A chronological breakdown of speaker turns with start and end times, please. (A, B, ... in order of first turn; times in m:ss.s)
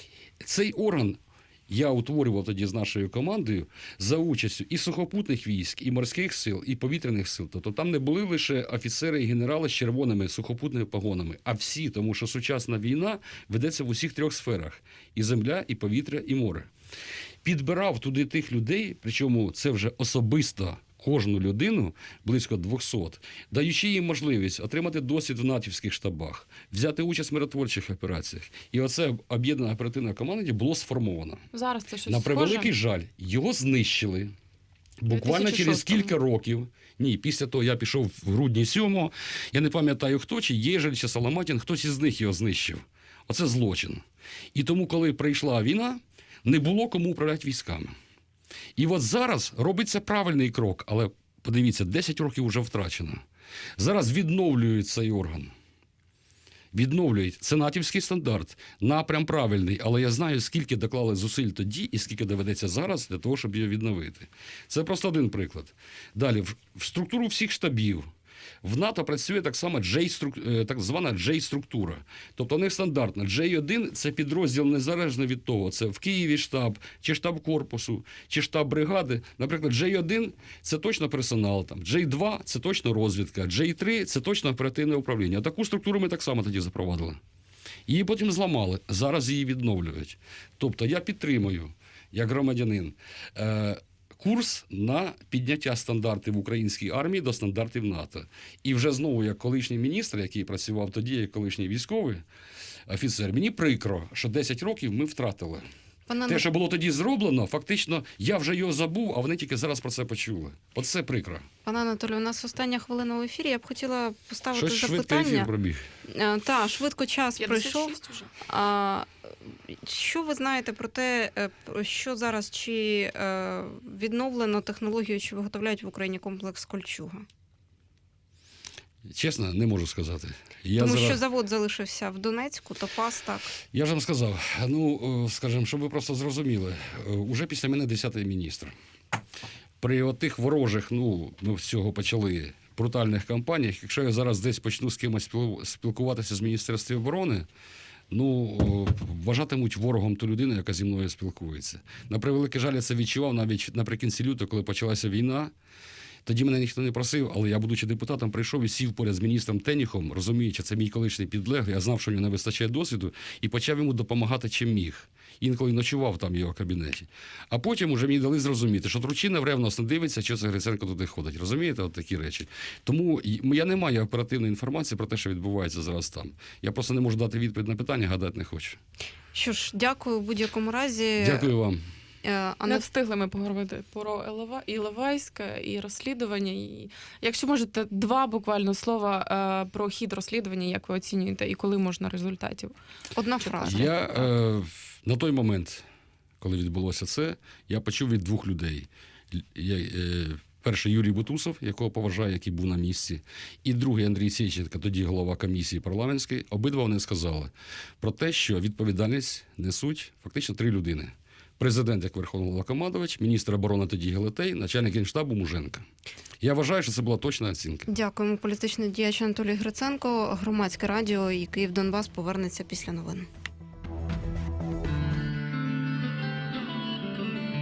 0:00.4-0:16.7 A
0:17.4-0:31.4 A
0:31.5-0:32.7 B
0:32.0-0:34.3 A
0:35.0-0:47.9 A
0:35.1-0:36.1 B
0:48.8-0:53.2 A
0:53.8-0:55.5 A
0:56.7-1:08.1 A
1:08.6-1:27.2 A
1:27.9-1:42.2 A
1:42.9-1:45.6 A
1:46.1-1:46.4 C
1:46.2-1:51.5 A
1:51.6-1:55.5 C
1:54.5-1:55.8 A
1:56.1-1:58.0 C
1:57.4-1:58.3 B
1:58.5-2:07.2 C
2:09.0-2:11.2 A
2:10.8-2:13.5 C
2:13.7-2:18.7 A
2:19.8-2:27.5 A
2:28.1-2:35.5 A
2:36.2-2:58.8 A
2:59.3-3:01.5 C
3:01.2-3:01.8 A
3:02.2-3:02.8 C
3:02.6-3:12.7 B
3:13.1-3:14.0 C
3:13.6-3:15.8 A
3:16.4-3:35.8 A
3:36.4-3:37.9 A
3:37.9-3:43.3 C